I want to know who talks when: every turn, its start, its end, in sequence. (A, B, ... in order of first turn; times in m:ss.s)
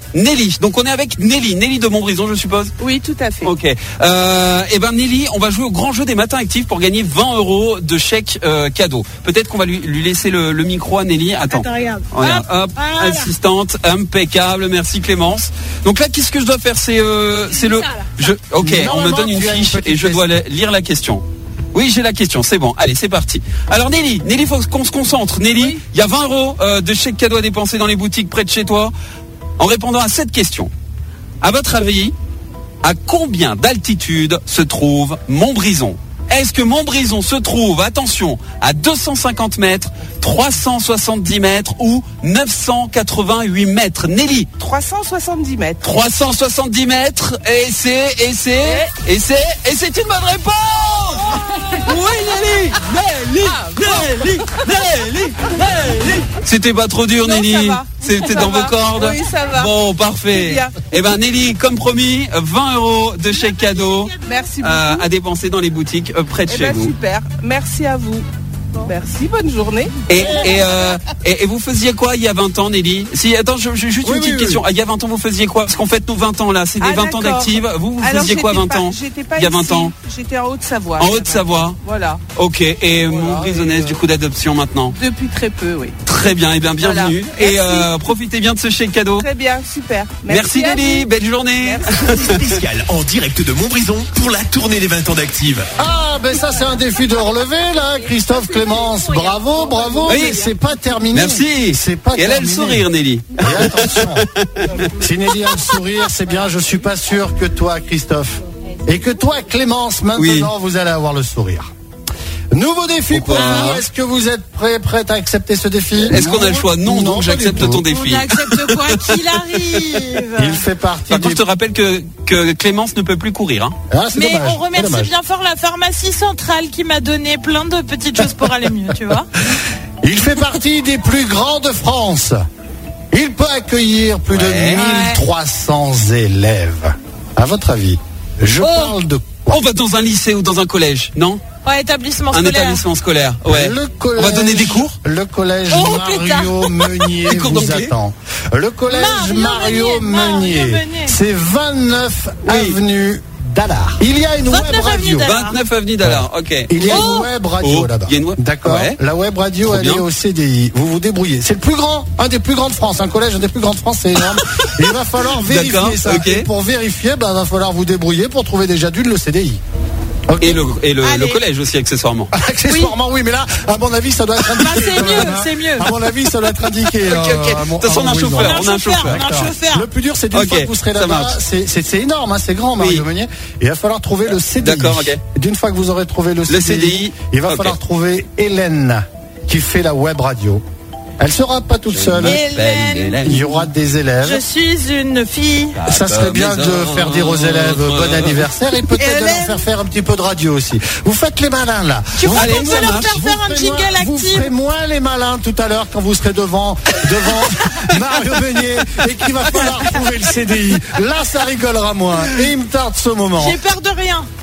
0:00.1-0:02.8 A
0:02.8-0:03.5 B
0:03.4-0:28.9 A
0:11.5-0:13.3 C
0:17.5-0:18.2 C
0:18.6-0:20.3 D
0:29.6-0:30.7 A
0:31.4-0:32.1 A
0:32.8-0:44.5 A
0:44.6-0:45.8 B
0:45.8-1:07.0 A
0:48.6-0:48.9 B
0:53.4-0:54.4 B
0:57.2-0:59.7 B
1:00.2-1:00.9 B
1:04.2-1:05.1 B
1:06.5-1:08.3 B
1:08.8-1:10.4 B
1:10.1-1:19.9 A
1:14.0-1:14.6 D
1:16.8-1:22.2 B
1:21.0-1:21.8 A
1:22.3-1:25.0 A
1:23.0-1:24.0 B
1:24.9-1:26.0 B
1:26.0-1:29.3 A
1:26.8-1:27.9 B
1:29.2-1:32.0 B
1:30.3-1:32.5 A
1:32.0-1:35.7 E
1:35.8-1:42.9 D
1:39.9-1:40.3 B
1:40.1-1:40.4 A
1:41.1-1:44.9 A
1:43.4-1:44.2 D
1:45.0-1:51.7 D
1:50.2-1:50.5 A
1:52.5-1:57.8 D
1:53.1-1:53.8 A
1:53.3-1:53.8 C
1:56.1-1:59.2 A
1:57.9-2:00.6 C
2:00.4-2:01.4 D
2:01.1-2:03.8 A
2:03.9-2:05.1 D
2:04.1-2:09.3 C
2:10.0-2:12.4 D
2:13.1-2:19.6 D
2:14.3-2:14.9 A
2:14.7-2:15.2 C
2:18.6-2:18.9 A
2:19.5-2:21.4 A
2:21.6-2:22.8 C
2:22.3-2:25.0 A
2:23.4-2:35.3 D
2:25.7-2:27.1 C
2:27.3-2:27.9 A
2:28.9-2:31.2 C
2:32.5-2:32.8 A
2:34.5-2:35.6 C
2:35.2-2:39.0 A
2:36.0-2:49.6 D
2:36.8-2:37.3 C
2:39.6-2:40.0 A
2:45.4-2:46.5 A
2:50.3-2:50.6 D
2:50.4-2:52.3 A
2:51.0-2:51.4 C
2:52.3-3:10.6 D
2:52.7-2:52.9 C
2:54.6-2:55.9 C
2:57.0-2:59.5 A
2:58.3-2:59.9 C
3:00.3-3:01.4 A
3:02.8-3:03.0 A
3:04.6-3:05.2 A
3:06.5-3:07.8 A
3:11.2-3:12.4 D
3:11.9-3:13.7 A
3:12.1-3:13.4 C
3:13.2-3:14.4 D
3:14.2-3:15.8 C
3:15.8-3:18.4 A
3:15.9-3:33.6 D
3:18.8-3:19.6 C
3:22.2-3:24.5 C
3:22.3-3:23.2 A
3:33.4-3:34.3 C